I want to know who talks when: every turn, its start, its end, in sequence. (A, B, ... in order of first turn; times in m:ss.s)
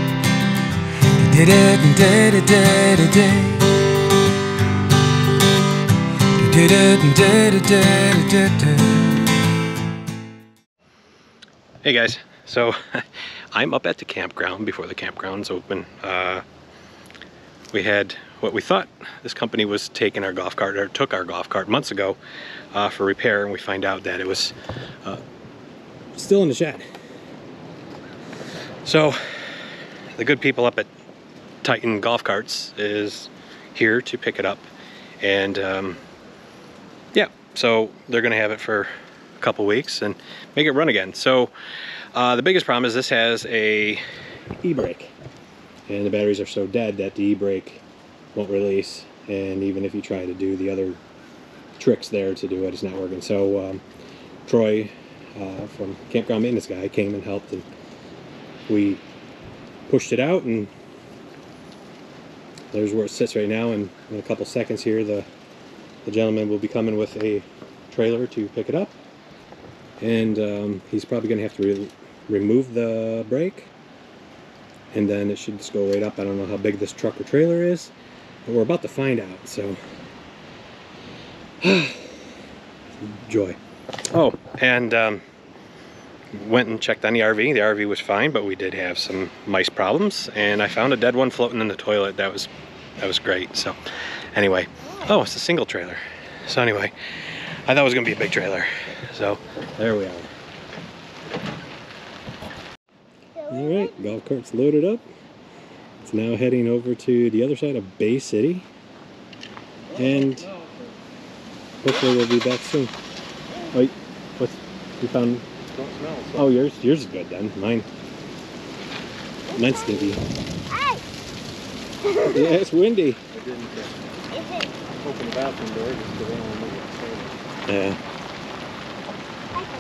0:01.1-0:03.6 A
0:06.3-0:09.2 A
0:11.8-0:16.4 B
0:17.7-0:22.2 B
0:22.7-0:25.2 B
0:26.1-0:26.8 B
0:28.8-0:30.9 B
0:31.6-0:34.7 B
0:35.2-0:36.0 B
0:37.1-0:41.5 B
0:42.1-0:44.0 B
0:44.6-0:45.1 B
0:45.9-0:51.0 B
0:51.8-0:53.8 B
0:54.4-0:57.6 B
0:58.7-0:59.0 B
0:59.9-1:00.7 B
1:02.7-1:05.3 B
1:06.0-1:09.0 B
1:10.0-1:13.7 B
1:14.9-1:17.9 B
1:18.4-1:19.8 B
1:21.6-1:22.2 B
1:23.0-1:23.6 B
1:24.1-1:25.2 B
1:26.3-1:33.8 B
1:34.3-1:36.9 B
1:37.6-1:40.3 B
1:43.4-1:45.0 B
1:46.0-1:48.7 B
1:49.9-1:50.5 B
1:51.8-1:52.9 B
1:53.7-1:55.4 B
1:55.7-1:56.5 C
1:56.3-1:57.9 B
1:59.5-2:00.2 B
2:02.0-2:03.2 B
2:03.3-2:04.0 C
2:05.0-2:07.4 C
2:07.7-2:08.0 B